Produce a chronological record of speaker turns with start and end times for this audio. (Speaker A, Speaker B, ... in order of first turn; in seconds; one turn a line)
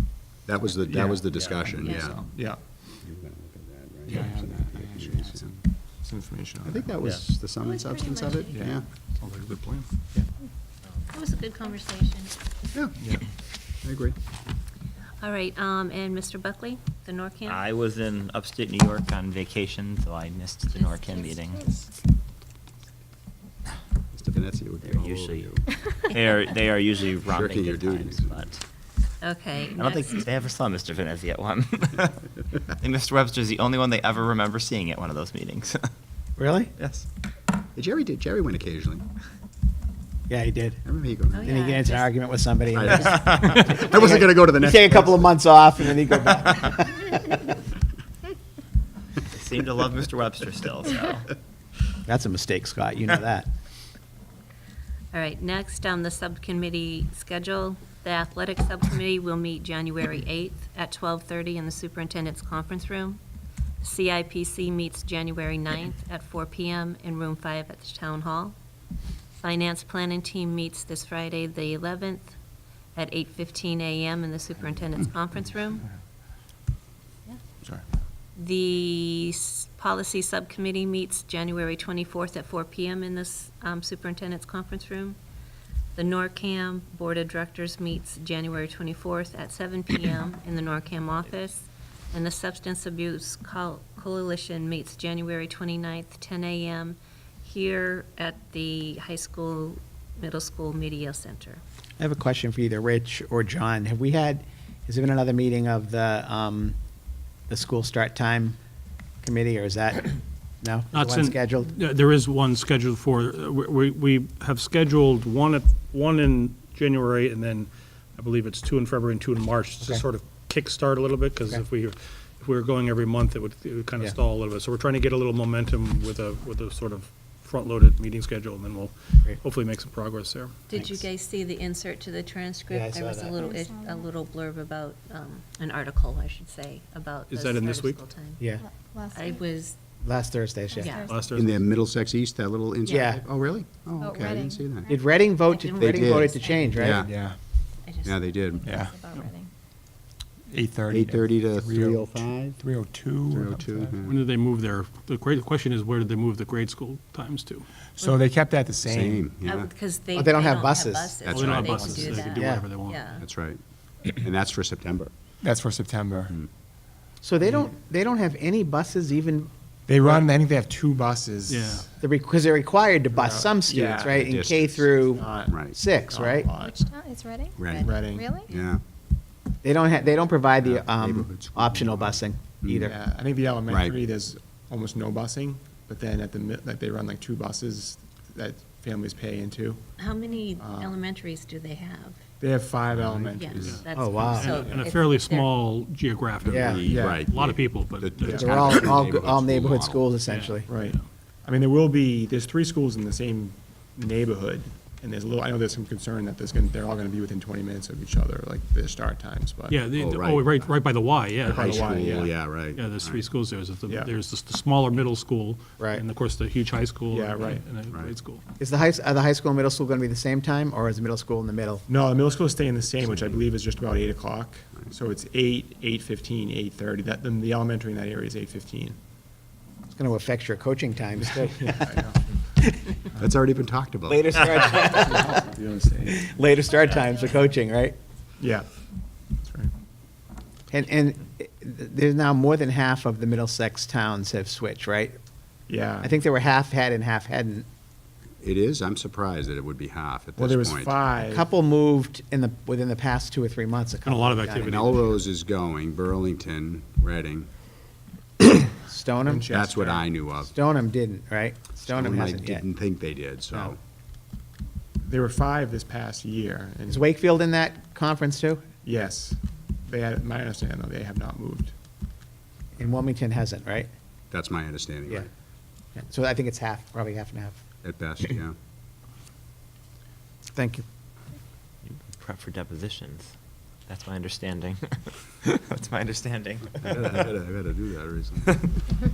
Speaker A: 0.5-2.2
Speaker B: 0.8-2.6
Speaker C: 1.3-1.6
Speaker D: 1.8-2.2
Speaker A: 3.0-5.5
Speaker B: 4.1-7.0
Speaker A: 6.6-8.8
Speaker C: 7.0-7.3
Speaker E: 7.6-8.7
Speaker B: 8.5-8.8
Speaker F: 9.2-9.9
Speaker D: 11.1-12.3
Speaker B: 13.0-13.2
Speaker A: 13.8-14.2
Speaker D: 15.2-17.6
Speaker C: 17.5-21.7
Speaker D: 20.8-21.4
Speaker A: 24.1-25.6
Speaker C: 24.8-25.6
Speaker C: 26.1-28.6
Speaker A: 27.3-28.4
Speaker D: 29.2-30.2
Speaker C: 29.8-35.9
Speaker G: 36.4-36.7
Speaker C: 36.8-37.0
Speaker A: 37.8-39.0
Speaker G: 40.3-40.8
Speaker A: 40.8-41.5
Speaker D: 41.3-42.1
Speaker G: 41.4-47.5
Speaker A: 42.7-45.3
Speaker C: 49.2-51.2
Speaker G: 52.0-53.5
Speaker D: 55.1-63.2
Speaker D: 63.8-68.5
Speaker D: 69.4-72.3
Speaker D: 72.9-75.8
Speaker D: 78.3-85.2
Speaker D: 86.0-101.6
Speaker G: 102.0-106.8
Speaker G: 107.5-108.6
Speaker G: 109.2-111.7
Speaker F: 110.9-130.6
Speaker D: 130.7-138.4
Speaker G: 130.7-131.0
Speaker G: 132.7-133.4
Speaker E: 133.4-134.1
Speaker F: 137.3-138.0
Speaker G: 138.4-138.6
Speaker E: 138.6-139.4
Speaker D: 139.1-139.8
Speaker G: 140.0-141.0
Speaker E: 140.7-141.3
Speaker D: 140.8-141.1
Speaker F: 141.1-141.7
Speaker A: 141.3-144.9
Speaker G: 142.8-143.2
Speaker E: 144.0-145.2
Speaker G: 144.9-147.1
Speaker D: 145.5-146.9
Speaker A: 145.8-147.1
Speaker B: 147.0-147.4
Speaker D: 147.8-148.6
Speaker A: 148.0-148.7
Speaker B: 148.6-149.4
Speaker E: 148.6-149.5
Speaker B: 150.5-153.8
Speaker A: 150.9-152.6
Speaker A: 153.3-154.2
Speaker F: 154.0-157.7
Speaker B: 158.0-159.3
Speaker A: 158.8-159.7
Speaker D: 159.4-163.2
Speaker G: 160.1-161.2
Speaker A: 161.2-161.8
Speaker F: 161.3-163.1
Speaker G: 162.2-162.7
Speaker A: 163.1-165.1
Speaker B: 165.4-166.3
Speaker G: 167.2-169.5
Speaker B: 169.9-171.9
Speaker F: 171.5-171.9
Speaker G: 172.0-176.5
Speaker B: 173.1-176.9
Speaker A: 174.3-174.8
Speaker A: 175.5-175.8
Speaker E: 176.6-178.5
Speaker A: 177.6-177.9
Speaker B: 177.8-178.4
Speaker A: 178.5-178.8
Speaker G: 179.6-182.9
Speaker A: 180.6-182.9
Speaker B: 182.8-189.8
Speaker A: 183.7-184.0
Speaker D: 190.0-192.2
Speaker B: 190.6-190.9
Speaker B: 192.4-193.8
Speaker A: 192.9-193.8
Speaker D: 193.3-195.6
Speaker F: 193.6-198.7
Speaker G: 193.9-194.6
Speaker B: 194.6-194.8
Speaker A: 196.4-200.1
Speaker G: 196.5-196.9
Speaker B: 196.8-197.2
Speaker B: 198.2-198.5
Speaker G: 198.3-200.7
Speaker F: 200.2-201.1
Speaker B: 200.7-209.9
Speaker F: 209.7-212.2
Speaker A: 209.9-213.2
Speaker B: 211.5-212.3
Speaker F: 212.7-218.4
Speaker B: 213.8-214.1
Speaker B: 217.1-217.8
Speaker A: 217.9-218.2
Speaker G: 218.6-221.8
Speaker B: 221.9-229.0
Speaker G: 229.9-232.0
Speaker B: 231.3-232.2
Speaker G: 232.6-232.9
Speaker A: 233.2-234.2
Speaker G: 234.1-235.4
Speaker B: 235.1-236.2
Speaker G: 236.0-238.0
Speaker B: 238.4-238.7
Speaker B: 239.4-239.7
Speaker G: 240.7-245.2
Speaker B: 245.7-246.1
Speaker G: 246.0-247.7
Speaker A: 248.4-251.0
Speaker B: 250.3-251.5
Speaker G: 251.3-255.1
Speaker F: 254.0-255.2
Speaker A: 254.6-257.5
Speaker G: 258.9-259.5
Speaker B: 259.2-260.1
Speaker A: 259.5-260.5
Speaker G: 260.4-262.6
Speaker A: 261.8-263.8
Speaker B: 265.1-267.1
Speaker G: 266.9-268.7
Speaker B: 268.8-271.7
Speaker G: 272.8-273.9
Speaker A: 274.3-275.3
Speaker G: 276.1-277.6
Speaker A: 277.8-278.6
Speaker G: 280.5-280.8
Speaker C: 281.8-283.3
Speaker C: 283.9-287.3
Speaker A: 286.8-288.5